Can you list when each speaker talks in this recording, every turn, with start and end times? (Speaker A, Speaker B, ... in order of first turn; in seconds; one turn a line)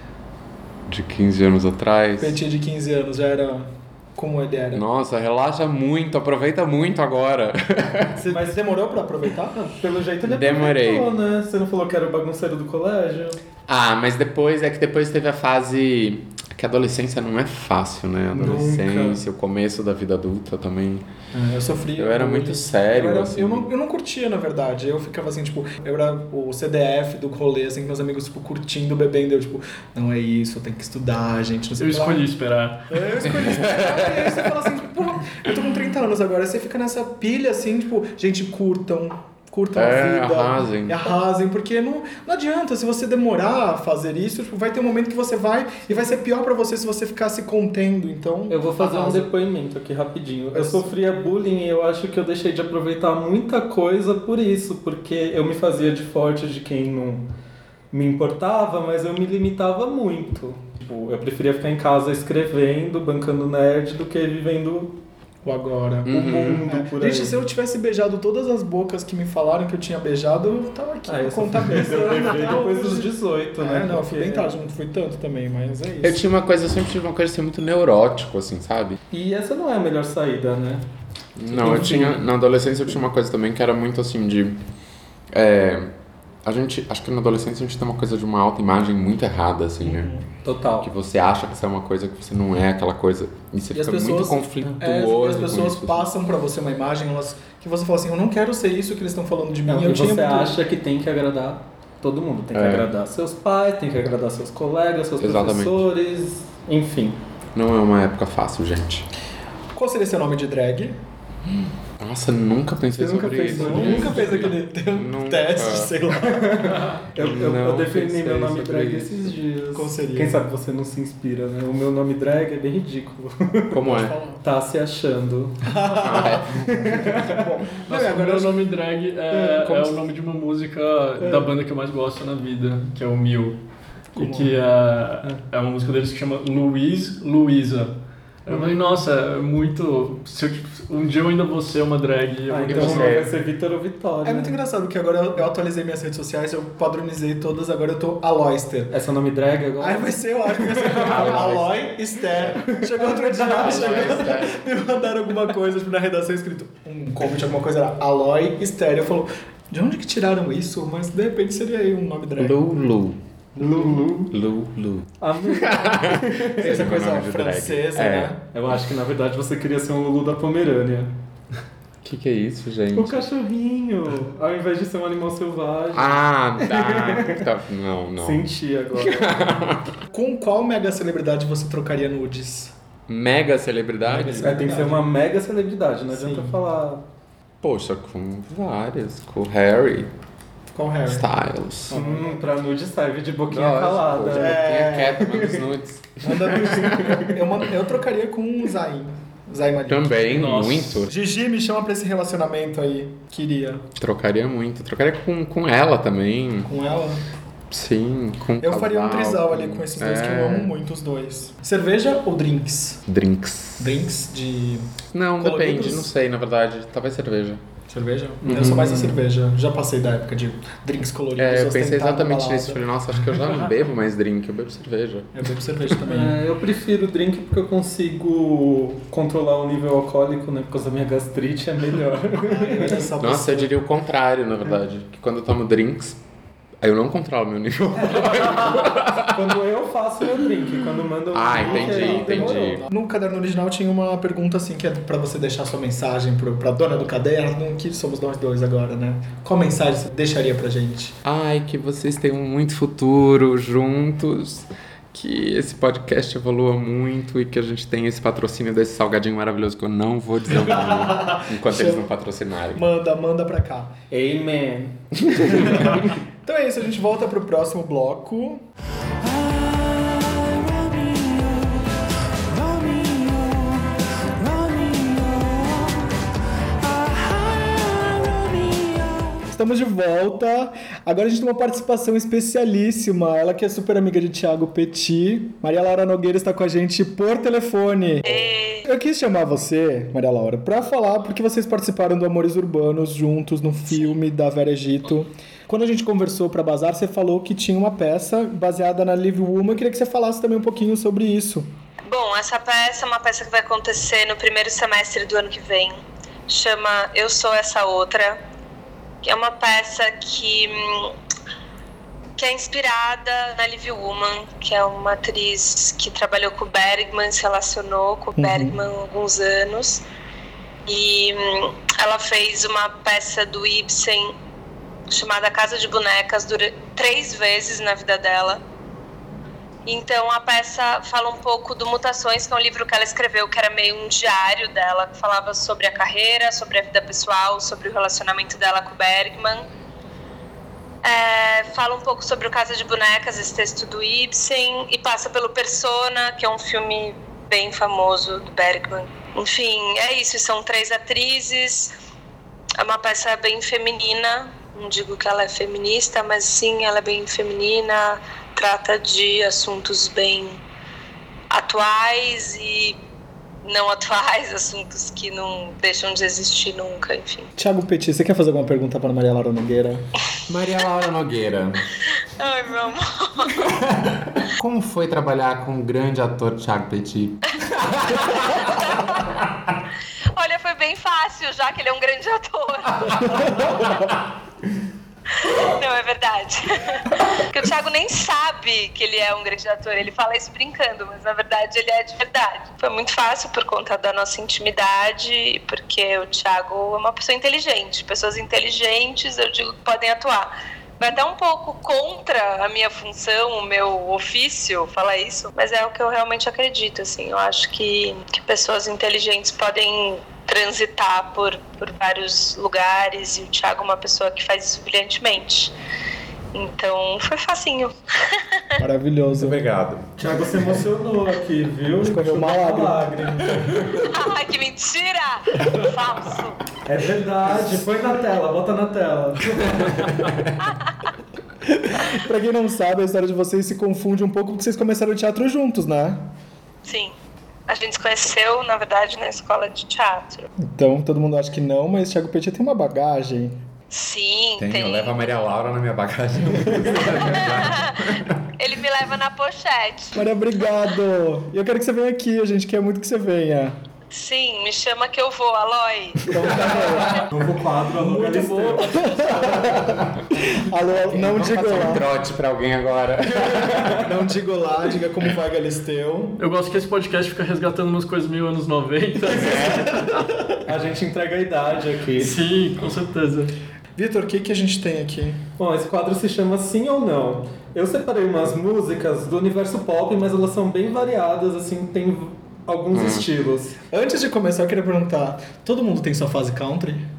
Speaker A: 0.9-2.4
Speaker B: 2.2-4.8
Speaker A: 4.7-8.2
Speaker B: 8.2-9.6
Speaker C: 8.3-8.6
Speaker C: 9.5-13.4
Speaker A: 10.2-11.1
Speaker A: 13.7-21.1
Speaker C: 18.3-19.2
Speaker B: 21.3-32.3
Speaker A: 22.0-23.7
Speaker D: 31.8-33.0
Speaker B: 32.9-49.3
Speaker A: 33.4-34.5
Speaker A: 39.8-41.1
Speaker C: 48.5-57.3
Speaker B: 50.5-51.0
Speaker C: 57.9-65.0
Speaker B: 65.4-76.2
Speaker A: 66.1-66.7
Speaker C: 66.1-67.4
Speaker C: 71.1-74.5
Speaker A: 76.0-79.0
Speaker C: 79.1-80.9
Speaker A: 81.4-84.6
Speaker C: 81.5-82.2
Speaker B: 81.6-82.0
Speaker A: 85.3-85.9
Speaker A: 86.4-90.1
Speaker B: 89.8-90.3
Speaker C: 90.4-90.9
Speaker A: 90.8-96.1
Speaker B: 93.7-100.6
Speaker C: 99.7-107.2
Speaker A: 102.5-102.9
Speaker A: 105.2-105.9
Speaker A: 107.5-109.1
Speaker B: 109.7-111.0
Speaker A: 112.0-116.0
Speaker C: 113.0-114.5
Speaker B: 113.5-116.8
Speaker C: 116.2-123.8
Speaker A: 117.2-119.3
Speaker B: 119.7-120.4
Speaker A: 123.7-124.2
Speaker B: 123.8-124.4
Speaker C: 124.4-125.9
Speaker B: 125.6-128.6
Speaker A: 126.0-126.9
Speaker C: 126.5-127.4
Speaker D: 127.9-133.6
Speaker B: 129.4-129.9
Speaker C: 129.4-129.7
Speaker B: 134.2-134.5
Speaker D: 134.2-137.9
Speaker D: 138.5-143.2
Speaker C: 142.5-144.6
Speaker A: 142.7-143.3
Speaker B: 144.2-148.9
Speaker C: 148.9-151.1
Speaker B: 149.8-162.6
Speaker A: 150.8-152.5
Speaker C: 152.6-154.3
Speaker A: 153.5-154.6
Speaker A: 162.4-163.2
Speaker C: 163.6-164.3
Speaker B: 163.6-164.1
Speaker A: 164.3-168.3
Speaker C: 165.2-166.6
Speaker B: 166.6-168.4
Speaker C: 168.5-171.1
Speaker A: 172.0-173.3
Speaker C: 172.9-177.4
Speaker A: 175.9-178.5
Speaker C: 178.2-179.5
Speaker A: 179.0-179.9
Speaker B: 180.1-182.7
Speaker A: 183.1-184.6
Speaker B: 184.1-185.1
Speaker C: 184.3-187.0
Speaker B: 186.1-186.6
Speaker A: 187.6-190.1
Speaker B: 190.7-191.3
Speaker A: 191.1-192.0
Speaker B: 191.9-192.3
Speaker C: 191.9-194.6
Speaker A: 193.5-197.0
Speaker B: 194.3-195.4
Speaker C: 195.2-195.6
Speaker B: 196.2-200.2
Speaker C: 196.8-197.3
Speaker A: 199.9-201.1
Speaker D: 200.3-201.1
Speaker B: 201.1-203.9
Speaker A: 204.0-206.7
Speaker B: 206.7-207.2
Speaker A: 207.7-210.7
Speaker B: 208.6-213.0
Speaker A: 213.1-214.0
Speaker B: 213.8-216.1
Speaker A: 215.1-217.6
Speaker B: 217.9-222.8
Speaker C: 218.4-219.2
Speaker A: 218.5-218.9
Speaker A: 221.4-225.3
Speaker B: 225.3-226.4
Speaker C: 226.0-233.1
Speaker B: 232.4-233.7
Speaker A: 233.2-236.2
Speaker A: 236.8-239.4
Speaker C: 238.0-242.8
Speaker A: 241.3-242.8
Speaker B: 241.5-251.2
Speaker A: 251.2-262.8
Speaker B: 260.5-262.1
Speaker B: 262.7-264.0
Speaker C: 264.1-265.0
Speaker A: 265.4-265.8
Speaker B: 265.6-268.6
Speaker C: 269.4-269.7
Speaker C: 270.3-271.7
Speaker C: 272.5-273.6
Speaker C: 274.4-275.5
Speaker B: 279.5-301.7
Speaker E: 288.2-288.9
Speaker E: 302.1-308.4
Speaker E: 309.2-311.2
Speaker E: 312.4-320.0
Speaker B: 318.4-318.8
Speaker E: 320.9-324.4
Speaker E: 325.1-328.6
Speaker E: 329.9-339.7
Speaker E: 341.0-351.9
Speaker E: 352.8-360.6
Speaker E: 361.5-363.0
Speaker E: 363.6-367.5
Speaker B: 367.6-370.0
Speaker A: 370.5-371.9
Speaker E: 372.4-373.7
Speaker A: 373.7-379.0
Speaker E: 378.1-379.4
Speaker E: 380.4-384.2
Speaker E: 385.4-415.7
Speaker E: 416.5-418.8
Speaker B: 418.8-419.6
Speaker A: 419.4-420.1
Speaker C: 420.2-423.8
Speaker B: 422.0-423.6
Speaker E: 424.1-426.6
Speaker C: 426.9-430.3
Speaker B: 431.7-436.3
Speaker E: 436.9-437.1
Speaker E: 437.7-440.5
Speaker B: 440.6-443.6
Speaker E: 443.9-445.4
Speaker A: 444.6-448.3
Speaker B: 446.8-447.1
Speaker E: 447.3-450.2
Speaker B: 450.1-453.8
Speaker E: 454.1-457.1
Speaker B: 456.2-457.3
Speaker C: 457.1-459.5
Speaker B: 458.0-462.1
Speaker D: 458.6-459.7
Speaker A: 461.1-464.1
Speaker B: 463.4-466.4
Speaker D: 466.4-470.0
Speaker A: 469.4-469.9
Speaker B: 469.7-470.4
Speaker C: 470.6-472.4
Speaker D: 472.2-473.5
Speaker B: 474.0-475.4
Speaker C: 475.6-483.8
Speaker A: 482.9-483.3
Speaker B: 483.9-487.1